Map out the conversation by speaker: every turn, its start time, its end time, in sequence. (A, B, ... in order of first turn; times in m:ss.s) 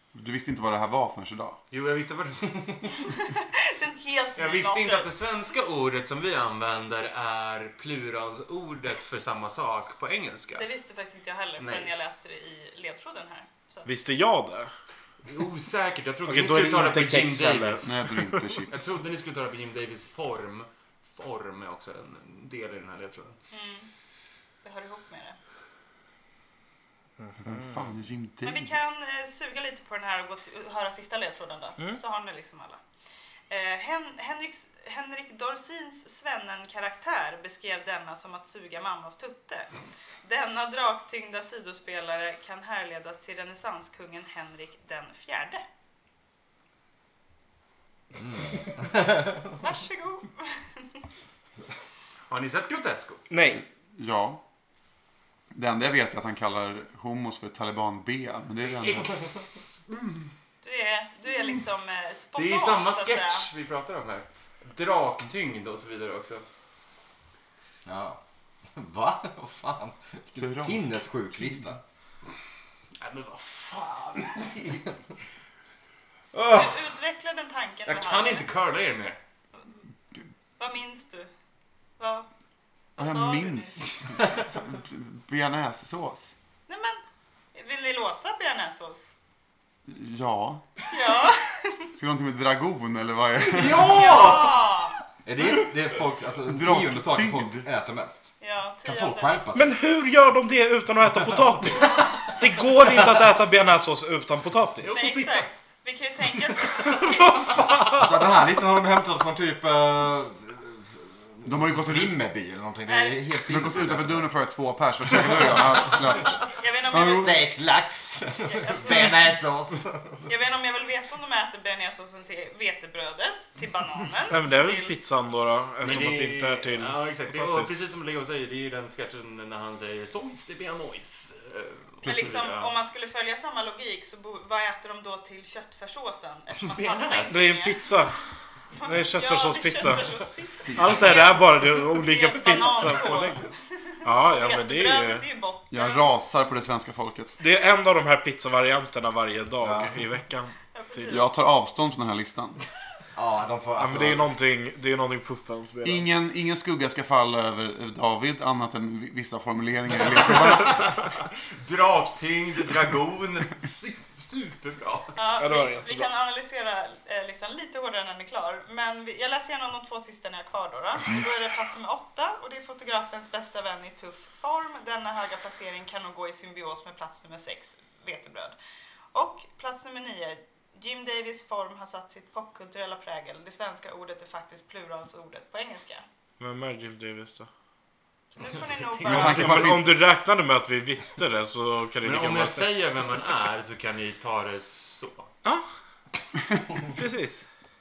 0:00.1-0:01.6 A
0:01.7-0:03.1 B
0:03.0-0:05.1 C
0:04.4-0:10.7 B
0:10.5-0:13.9 C
0:11.6-0:11.9 B
0:13.8-0:14.7 D
0:15.2-0:18.0 B
0:16.2-0:18.6 D
0:17.8-0:18.8 A
0:18.7-0:23.4 B
0:23.5-0:23.9 C
0:24.6-0:25.4 C
0:27.2-0:27.7 D
0:27.4-0:28.9 A
0:28.4-0:32.8 C
0:33.5-0:39.7 C
0:40.2-0:45.6 C
0:48.2-0:49.5 E
0:49.6-0:51.0 C
0:52.3-0:53.2 B
0:53.3-0:53.6 D
0:54.0-0:54.4 A
0:55.5-0:59.4 A
0:58.6-1:00.3 B
1:00.6-1:03.5 C
1:02.4-1:06.4 B
1:07.8-1:08.2 E
1:08.7-1:11.8 E
1:10.3-1:11.8 A
1:13.0-1:14.8 B
1:16.3-1:16.7 B
1:16.5-1:18.5 C
1:17.8-1:19.2 B
1:20.6-1:21.3 C
1:22.0-1:22.3 C
1:23.0-1:23.8 C
1:23.0-1:26.4 A
1:26.7-1:27.0 C
1:27.5-1:29.1 C
1:29.8-1:30.6 A
1:30.9-1:31.9 C
1:31.9-1:34.2 A
1:33.5-1:34.7 B
1:33.8-1:34.4 E
1:33.8-1:35.0 C
1:35.2-1:38.3 E
1:36.4-1:37.7 A
1:38.4-1:39.4 C
1:38.8-1:39.7 E
1:39.5-1:45.0 D
1:44.8-1:45.5 B
1:44.9-1:47.8 C
1:46.8-1:48.2 D
1:48.0-1:54.3 E
1:51.4-1:52.2 A
1:52.9-1:53.2 C
1:53.4-1:56.4 A
1:55.1-1:56.0 E
1:56.2-1:57.4 C
1:56.9-2:00.3 E
1:58.4-1:59.4 C
2:00.3-2:05.0 C
2:04.3-2:07.8 D
2:05.8-2:12.7 B
2:12.0-2:17.9 C
2:16.6-2:17.5 B
2:17.3-2:18.2 D
2:18.8-2:26.1 C
2:18.8-2:20.1 D
2:20.7-2:21.1 A
2:20.7-2:23.4 D
2:24.0-2:25.3 D
2:25.7-2:27.4 A
2:27.4-2:31.2 D
2:29.6-2:30.1 E
2:30.7-2:31.3 C
2:31.1-2:32.6 A
2:33.1-2:34.3 E
2:33.8-2:36.0 D
2:35.8-2:41.0 A
2:40.4-2:40.9 B
2:41.6-2:45.1 B
2:45.1-2:58.6 C
2:45.4-2:46.1 D
2:59.1-3:06.0 C
3:06.4-3:07.5 D
3:08.4-3:09.7 C
3:08.7-3:09.7 B
3:09.0-3:10.0 A
3:09.1-3:12.7 D
3:12.0-3:15.3 B
3:16.9-3:17.4 D